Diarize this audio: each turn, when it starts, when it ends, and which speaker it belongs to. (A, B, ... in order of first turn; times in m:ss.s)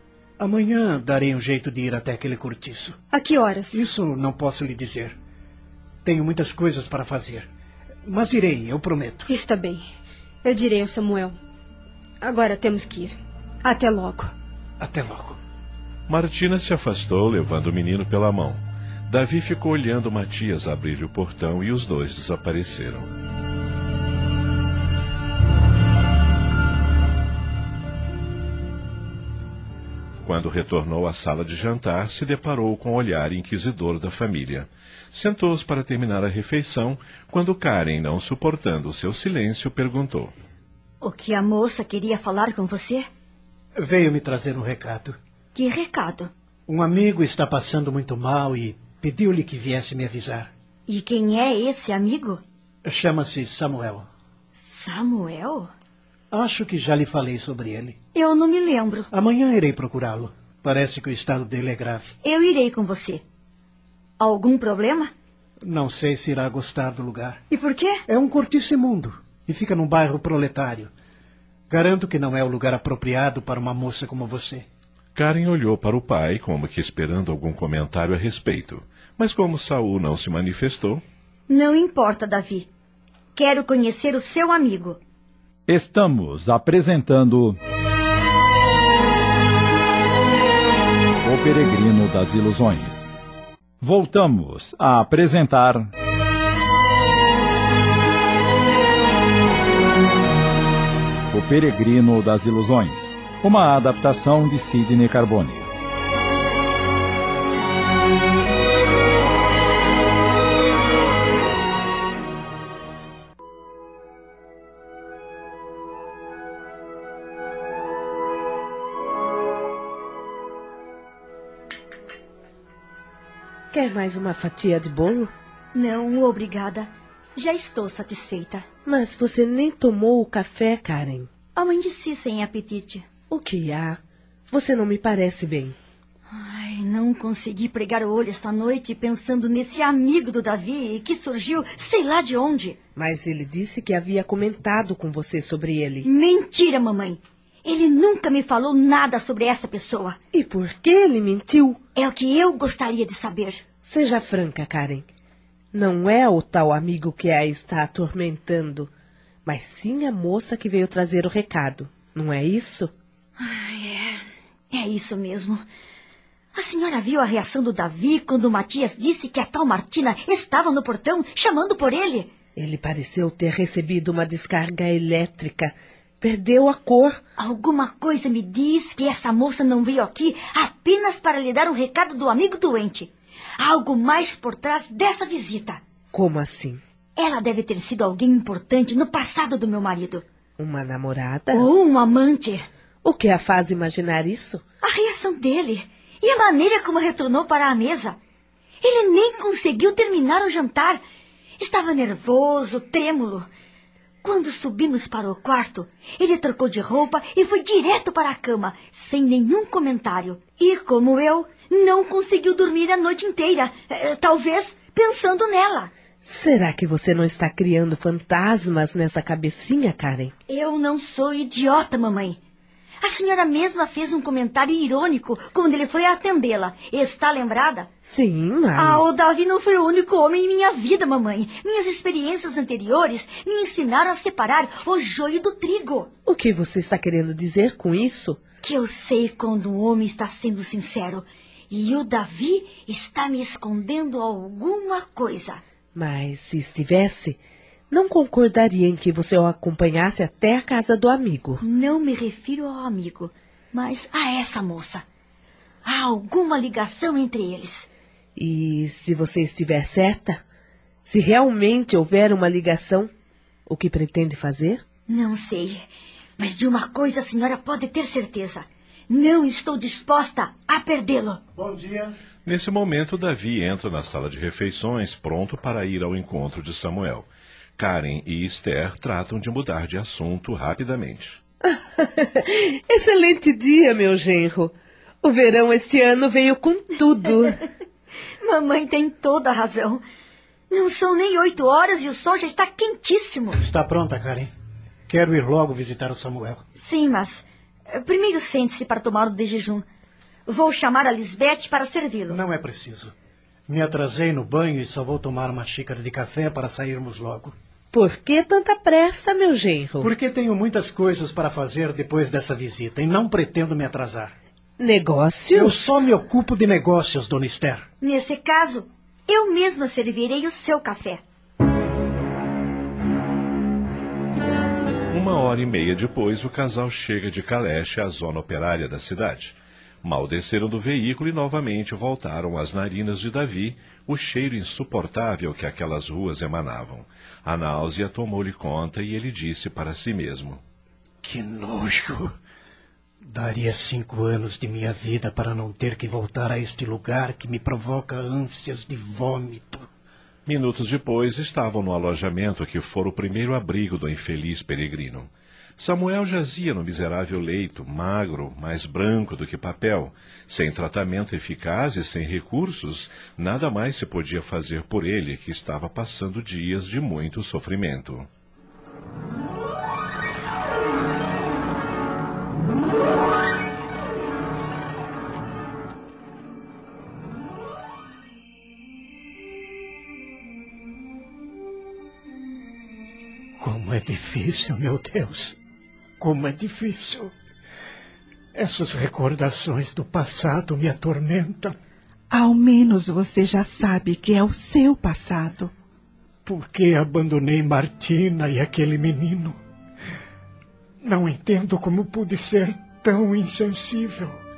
0:00.4-0:03.0 A
0:03.1-0:03.8 B
0:03.7-0:05.2 A
0:06.0-0:07.5 A
0:08.1-0:09.3 A
0:09.3-0:09.8 B
0:10.4-0:11.4 B
0:12.2-0:14.3 B
0:14.8-0:15.4 A
0:16.1-0:23.1 C
0:30.2-0:40.3 C
0:41.0-0:43.1 D
0:43.8-0:45.2 A
0:45.6-0:46.3 D
0:46.7-0:50.5 A
0:50.9-0:52.4 D
0:52.8-0:54.1 A
0:54.7-0:55.7 D
0:56.3-0:58.0 A
0:58.1-0:59.1 D
0:59.1-1:02.1 A
1:02.2-1:03.2 D
1:04.2-1:05.1 D
1:05.6-1:07.4 A
1:07.5-1:08.0 D
1:08.1-1:10.9 A
1:11.7-1:14.7 A
1:15.2-1:21.0 C
1:21.5-1:22.7 D
1:23.4-1:25.0 D
1:25.7-1:27.6 E
1:31.2-1:33.2 E
1:33.8-1:35.9 E
1:41.3-1:45.7 E
2:03.7-2:05.3 F
2:05.7-2:08.6 D
2:08.8-2:11.3 F
2:11.6-2:13.0 D
2:13.3-2:15.8 F
2:16.3-2:22.8 D
2:23.0-2:26.1 F
2:26.0-2:30.2 D
2:30.3-2:31.8 F
2:32.0-2:33.6 D
2:33.8-2:35.1 F
2:35.7-2:38.9 F
2:39.4-2:42.9 F
2:43.4-2:45.6 D
2:46.5-2:52.3 D
2:52.6-2:57.2 F
2:57.4-3:05.8 D
3:06.1-3:06.8 F
3:07.2-3:10.2 D
3:10.6-3:11.6 F
3:11.5-3:12.7 D
3:13.0-3:14.6 F
3:14.8-3:18.2 D
3:18.8-3:21.0 D
3:21.6-3:23.5 D
3:24.2-3:35.9 D
3:36.2-3:40.3 F
3:40.5-3:42.4 D
3:43.0-3:47.9 D
3:48.0-3:49.1 F
3:48.7-3:56.1 D
3:56.2-3:58.4 F
3:58.6-4:05.6 D
4:05.9-4:11.6 F
4:11.6-4:15.0 D
4:15.8-4:17.9 D
4:18.4-4:20.4 F
4:21.0-4:23.1 F
4:23.7-4:24.8 F
4:25.1-4:25.8 D
4:26.4-4:31.4 D
4:31.6-4:32.1 A
4:32.4-4:41.4 C
4:41.6-4:47.6 F
4:48.4-4:50.0 D
4:50.7-4:53.6 D
4:53.6-4:54.5 A
4:55.1-4:56.6 A
4:56.8-4:59.8 D
5:00.5-5:02.4 D
5:02.3-5:03.1 A
5:03.7-5:07.5 A
5:07.9-5:10.1 F
5:10.0-5:14.3 A
5:14.8-5:16.1 F
5:15.5-5:17.9 A
5:18.0-5:21.2 D
5:25.1-5:40.6 C
5:41.2-5:42.3 A
5:43.2-5:49.9 A
5:50.5-6:08.3 C
6:23.6-6:25.6 A
6:26.2-6:27.3 A
6:28.6-6:31.8 A
6:32.3-6:35.7 G
6:36.4-6:39.6 A
6:41.0-6:44.4 A